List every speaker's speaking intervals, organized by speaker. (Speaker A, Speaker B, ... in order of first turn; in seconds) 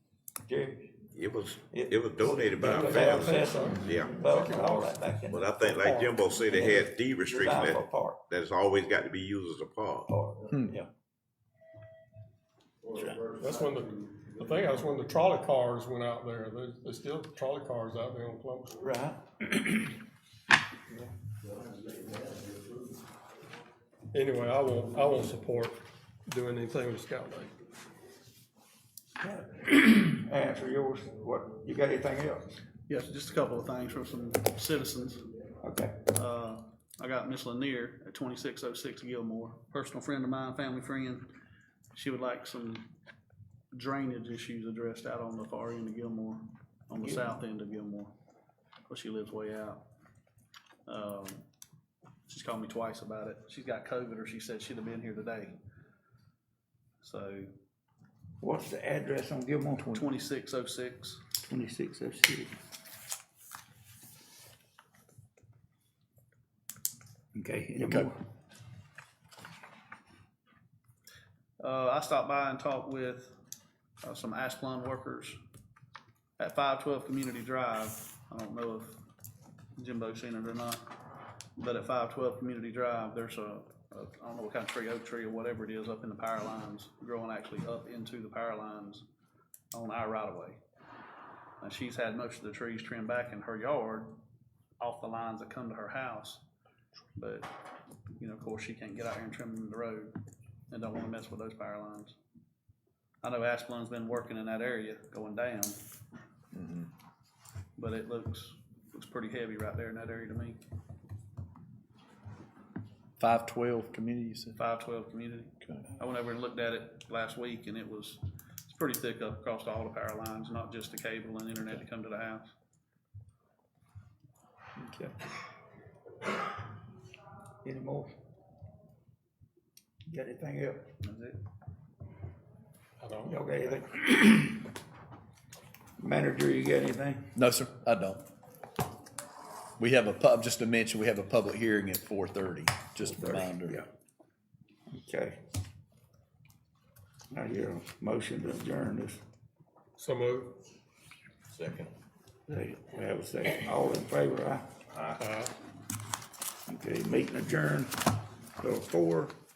Speaker A: 0.4-1.0, 1.7-8.2, 10.1-10.9, 18.8-20.0, 20.9-21.1, 29.2-32.6, 35.6-36.0, 47.0-47.3, 58.4-59.9, 61.4-62.5, 67.3-68.2, 124.8-125.1, 127.6-128.2, 130.1-130.9, 133.2-134.7, 136.0-137.3, 143.0-143.9, 144.9-145.4, 147.3-149.2, 152.5-154.7, 156.7-159.3
Speaker B: 1.1-4.2, 5.3-10.1, 151.5-151.9, 154.9-155.2
Speaker C: 2.8-5.0, 5.8-6.1, 13.4-18.8, 24.1-27.6, 133.0-133.4, 150.0-150.6, 155.2-155.5
Speaker D: 12.8-14.8, 21.4-23.1
Speaker E: 32.9-35.2, 36.1-41.3, 41.9-42.9, 43.7-48.1, 48.9-49.8, 50.9-51.4, 52.3-55.6, 57.0-57.5, 59.9-61.2, 71.6-73.3, 74.0-75.4, 76.4-79.0, 79.8-80.9, 81.6-89.0, 89.7-90.6, 91.6-94.2, 94.8-96.4, 97.2-97.5, 98.2-100.1, 100.7-102.2, 103.2-105.8, 107.8-110.6, 114.5-122.5, 131.0-131.3
Speaker F: 59.8-60.0, 67.8-68.1, 106.5-106.9, 113.2-114.6, 115.6-115.9, 137.3-138.2, 139.8-143.8